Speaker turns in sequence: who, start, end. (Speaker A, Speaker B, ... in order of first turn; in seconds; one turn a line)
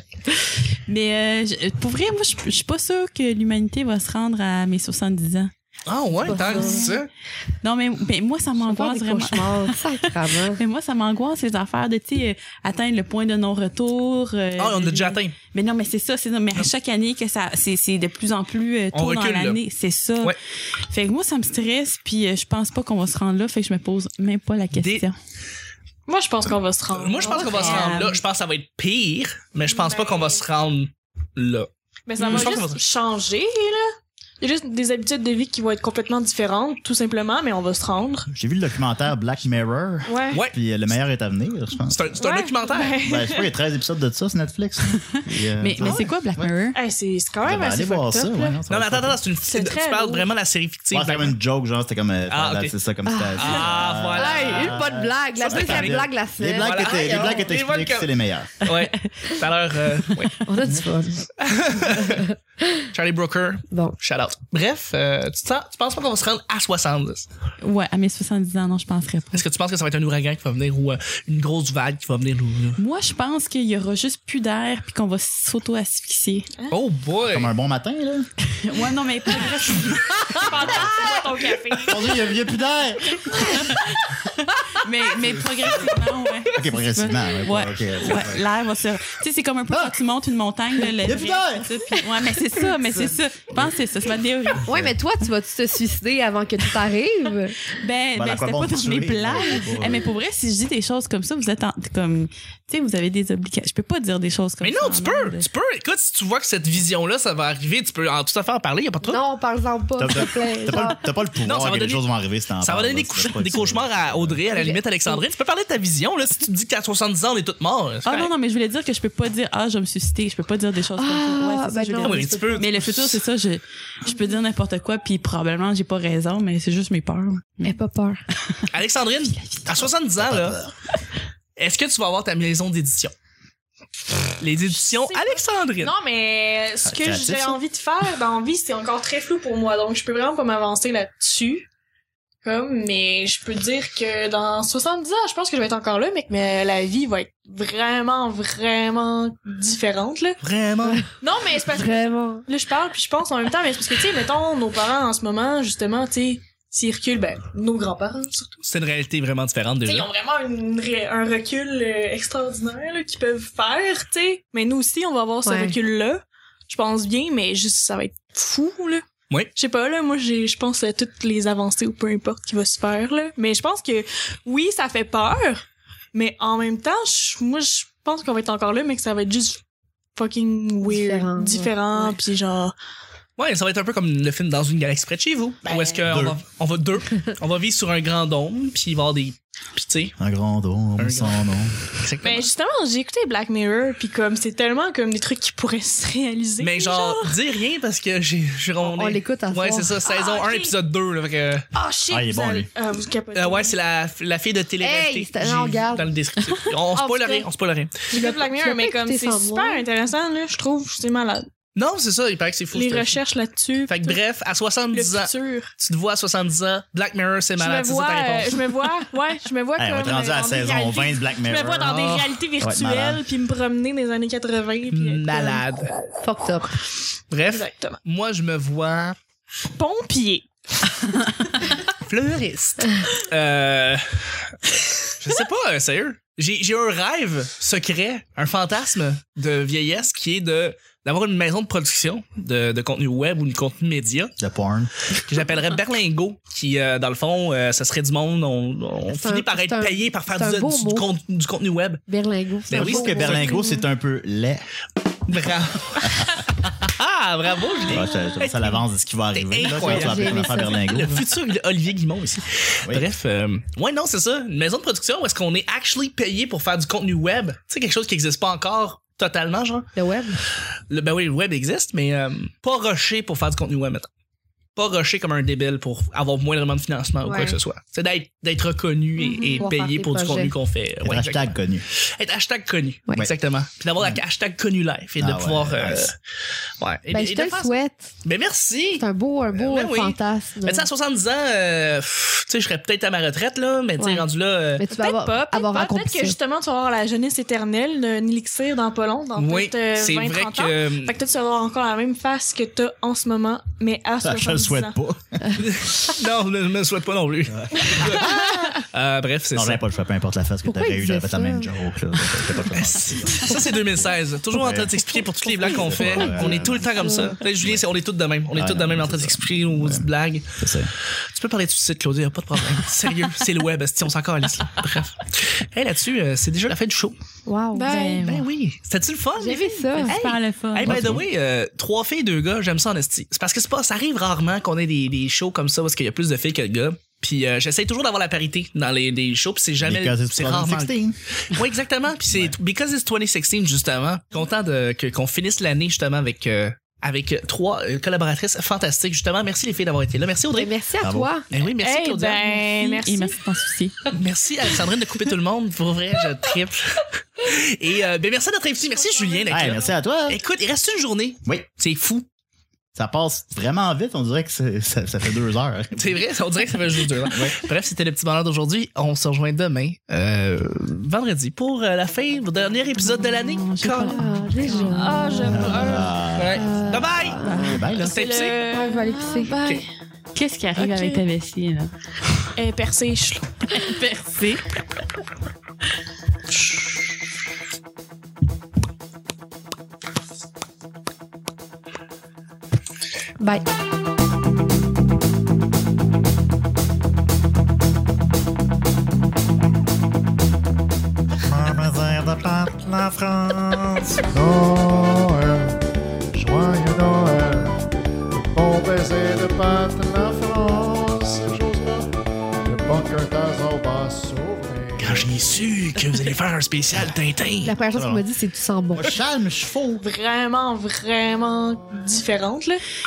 Speaker A: 0.3-5.5
Speaker B: 5.9-7.1
Speaker A: 6.2-7.0
Speaker C: 6.2-6.8
Speaker A: 7.6-20.4
Speaker C: 8.6-10.6
Speaker B: 14.6-15.3
Speaker B: 18.9-19.6
Speaker A: 20.9-25.1
Speaker B: 24.7-25.1
Speaker D: 26.1-28.0
Speaker B: 26.9-31.7
Speaker A: 27.3-28.2
Speaker D: 29.6-30.4
Speaker D: 32.1-33.9
Speaker B: 32.2-32.8
Speaker D: 34.4-38.3
Speaker E: 38.3-42.1
Speaker D: 40.0-40.4
Speaker B: 40.3-40.5
Speaker B: 41.9-43.0
Speaker D: 42.2-43.5
Speaker E: 43.0-46.5
Speaker A: 45.6-46.8
Speaker B: 45.8-46.1
Speaker D: 46.7-48.6
Speaker E: 47.4-49.2
Speaker B: 48.7-51.4
Speaker D: 49.4-50.3
Speaker E: 50.9-58.6
Speaker B: 52.3-52.7
Speaker C: 53.1-57.4
Speaker B: 53.3-54.8
Speaker B: 55.4-60.5
Speaker C: 60.4-62.8
Speaker B: 61.4-62.3
Speaker B: 62.9-67.3
Speaker C: 63.7-64.0
Speaker A: 67.6-69.4
Speaker B: 69.3-72.8
Speaker A: 72.8-76.5
Speaker B: 76.7-77.5
Speaker E: 77.3-78.3
Speaker A: 78.4-81.2
Speaker D: 80.3-82.2
Speaker E: 81.8-83.7
Speaker A: 83.4-94.7
Speaker E: 86.5-88.4
Speaker E: 91.0-91.7
Speaker E: 92.9-93.7
Speaker C: 94.6-97.6
Speaker E: 94.7-94.9
Speaker A: 97.7-105.5
Speaker E: 98.1-100.0
Speaker B: 104.6-109.2
Speaker C: 109.0-111.1
Speaker E: 110.0-114.4
Speaker B: 111.4-112.0
Speaker B: 112.6-118.3
Speaker C: 114.5-115.2
Speaker A: 118.0-127.8
Speaker C: 121.0-122.7
Speaker B: 122.0-123.2
Speaker C: 127.6-128.2
Speaker B: 128.7-130.6
Speaker E: 130.2-130.7
Speaker B: 131.6-133.1
Speaker B: 134.4-135.9
Speaker D: 134.8-141.7
Speaker E: 136.8-137.6
Speaker D: 142.4-150.4
Speaker B: 150.4-151.0
Speaker D: 151.2-158.6
Speaker C: 151.6-152.4
Speaker B: 158.6-160.1
Speaker D: 159.8-169.0
Speaker C: 165.4-165.8
Speaker D: 169.6-179.6
Speaker D: 180.2-182.7
Speaker C: 180.8-182.1
Speaker B: 183.4-190.2
Speaker D: 185.7-186.0
Speaker E: 186.1-186.4
Speaker E: 190.2-191.8
Speaker B: 191.0-192.5
Speaker D: 192.2-197.4
Speaker B: 196.6-201.7
Speaker C: 198.8-200.0
Speaker D: 200.0-200.7
Speaker D: 201.7-203.8
Speaker E: 202.1-202.7
Speaker B: 203.3-208.1
Speaker C: 204.8-206.1
Speaker C: 207.0-207.4
Speaker C: 208.1-209.8
Speaker D: 208.1-211.5
Speaker B: 211.7-213.2
Speaker D: 212.7-214.2
Speaker B: 213.9-218.6
Speaker D: 214.9-215.7
Speaker D: 217.6-226.6
Speaker E: 219.8-222.0
Speaker B: 221.8-222.4
Speaker E: 222.6-223.3
Speaker B: 224.9-225.9
Speaker C: 226.2-226.8
Speaker B: 227.3-229.2
Speaker D: 227.5-228.0
Speaker D: 229.7-230.5
Speaker B: 231.8-244.3
Speaker E: 244.4-244.9
Speaker B: 245.1-252.0
Speaker C: 249.1-251.1
Speaker C: 252.1-253.8
Speaker B: 252.7-253.6
Speaker E: 252.7-254.7
Speaker B: 255.3-258.8
Speaker E: 256.0-256.4
Speaker E: 257.9-261.2
Speaker B: 259.3-269.9
Speaker C: 259.7-261.2
Speaker C: 269.9-270.4
Speaker B: 270.9-274.1
Speaker B: 274.7-286.1
Speaker C: 277.2-277.6
Speaker C: 279.2-280.6
Speaker D: 279.4-279.7
Speaker E: 281.0-281.8
Speaker E: 285.2-286.1
Speaker B: 286.8-294.8
Speaker C: 287.1-288.1
Speaker C: 289.0-290.9
Speaker C: 294.0-294.2
Speaker C: 294.8-296.4
Speaker D: 294.9-304.9
Speaker B: 299.4-301.1
Speaker E: 304.2-305.6
Speaker B: 305.6-309.8
Speaker E: 307.5-308.3
Speaker E: 309.5-313.7
Speaker C: 310.6-312.5
Speaker B: 312.7-327.2
Speaker C: 313.4-313.6
Speaker E: 314.5-317.9
Speaker C: 314.7-317.4
Speaker E: 318.5-320.9
Speaker C: 327.4-328.3
Speaker D: 327.7-328.2
Speaker A: 327.8-328.5
Speaker B: 328.2-340.9
Speaker C: 329.4-330.2
Speaker A: 330.0-331.0
Speaker E: 330.8-331.2
Speaker E: 339.8-341.2
Speaker B: 341.5-350.7
Speaker C: 350.5-351.4
Speaker E: 351.0-351.3
Speaker B: 351.5-352.6
Speaker D: 351.8-353.4
Speaker A: 352.6-354.0
Speaker B: 354.1-362.2
Speaker D: 358.8-359.9
Speaker E: 359.5-360.4
Speaker E: 362.9-366.2
Speaker B: 365.9-374.2
Speaker E: 367.3-367.6
Speaker A: 373.1-375.4
Speaker C: 374.1-375.9
Speaker D: 374.6-376.0
Speaker E: 375.4-376.7
Speaker B: 375.5-378.6
Speaker C: 376.5-377.9
Speaker A: 377.4-377.8
Speaker E: 377.6-378.1
Speaker D: 378.0-379.9
Speaker C: 378.7-379.6
Speaker A: 380.3-381.9
Speaker D: 380.8-381.2
Speaker D: 382.6-383.9
Speaker A: 383.7-384.8
Speaker C: 393.4-393.6
Speaker F: 401.4-405.8
Speaker F: 406.3-412.1
Speaker F: 412.6-415.4
Speaker B: 415.0-417.7
Speaker C: 417.6-419.2
Speaker E: 417.9-418.2
Speaker E: 418.9-420.0
Speaker D: 420.0-422.8